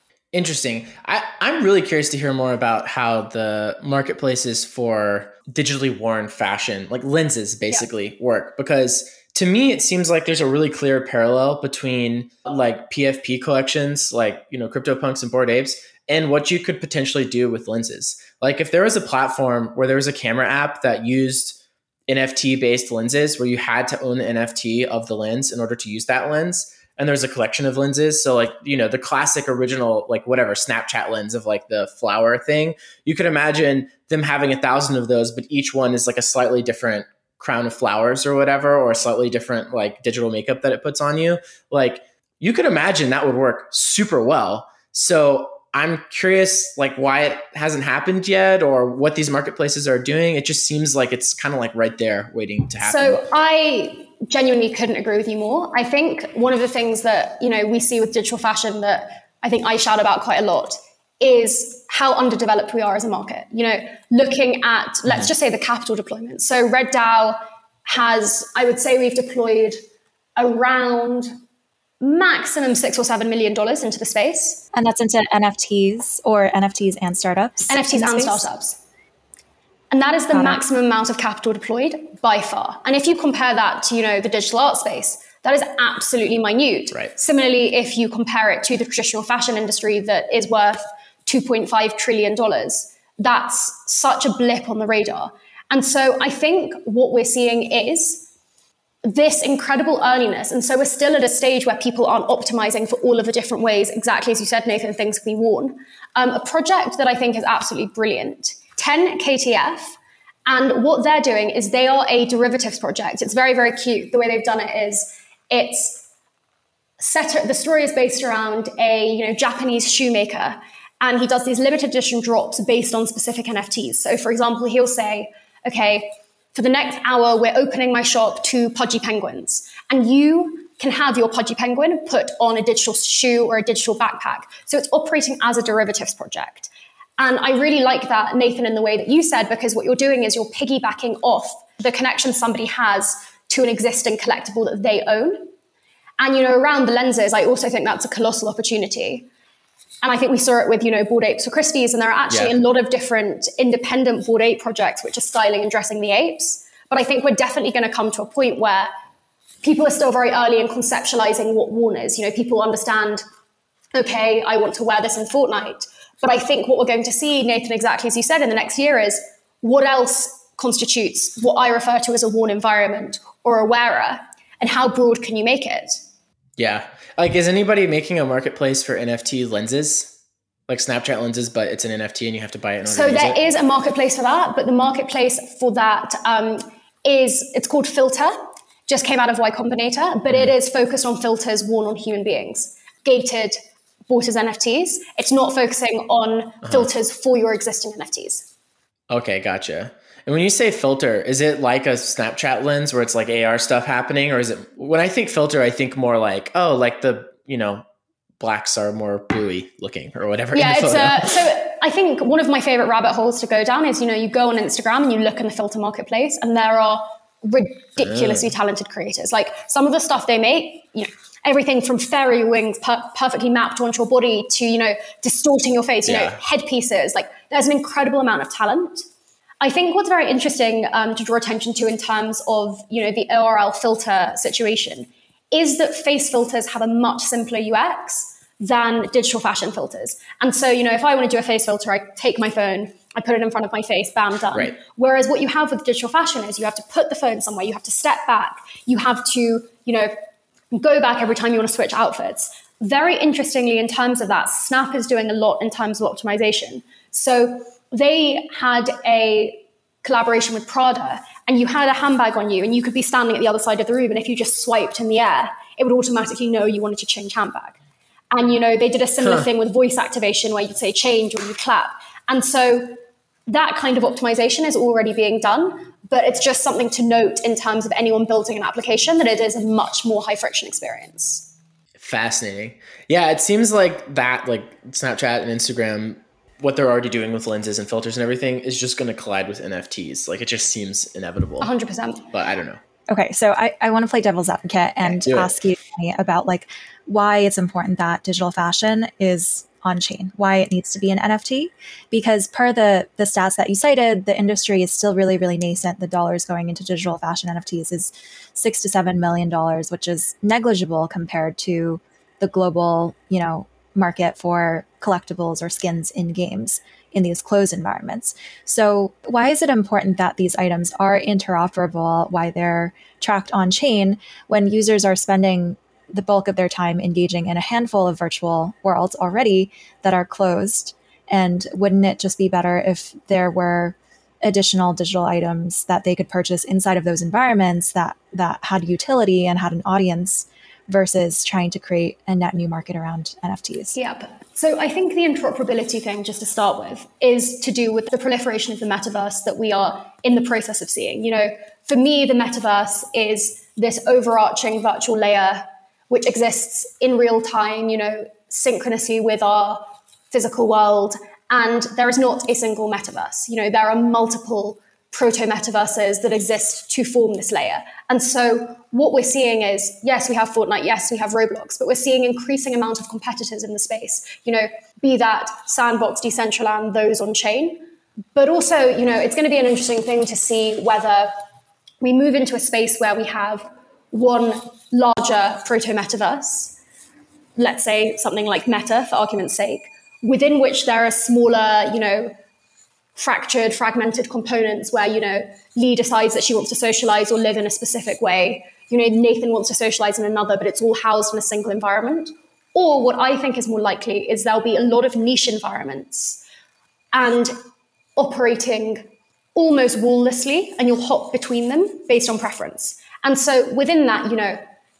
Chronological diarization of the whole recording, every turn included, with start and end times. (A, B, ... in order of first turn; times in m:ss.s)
0:00.3-0:53.2 A
0:52.8-1:09.8 B
1:10.4-1:11.3 B
1:12.0-1:14.6 B
1:14.7-1:18.5 C
1:17.7-1:18.8 B
1:19.9-1:38.3 B
1:20.3-1:20.6 C
1:39.0-1:56.0 B
1:57.0-2:25.5 B
2:26.2-2:29.3 B
2:30.0-2:38.9 B
2:39.6-2:43.2 B
2:43.9-2:56.0 B
2:56.6-3:00.1 A
3:00.7-3:03.4 A
3:02.9-3:08.4 B
3:08.9-3:18.5 B
3:19.1-3:27.8 A
3:28.4-3:31.3 A
3:30.5-3:49.0 B
3:38.0-3:38.4 A
3:46.0-3:46.4 A
3:49.6-4:10.1 B
4:10.7-4:27.8 B
4:28.3-4:33.0 B
4:33.5-4:41.5 B
4:42.0-4:51.7 A
4:51.6-4:52.3 B
4:52.3-4:52.8 A
4:53.1-5:44.0 C
4:55.1-4:55.5 A
5:43.9-6:17.8 B
6:18.3-6:21.3 B
6:22.0-6:26.8 B
6:27.6-6:32.3 B
6:33.2-6:46.4 B
6:47.1-6:47.5 B
6:48.2-6:54.6 B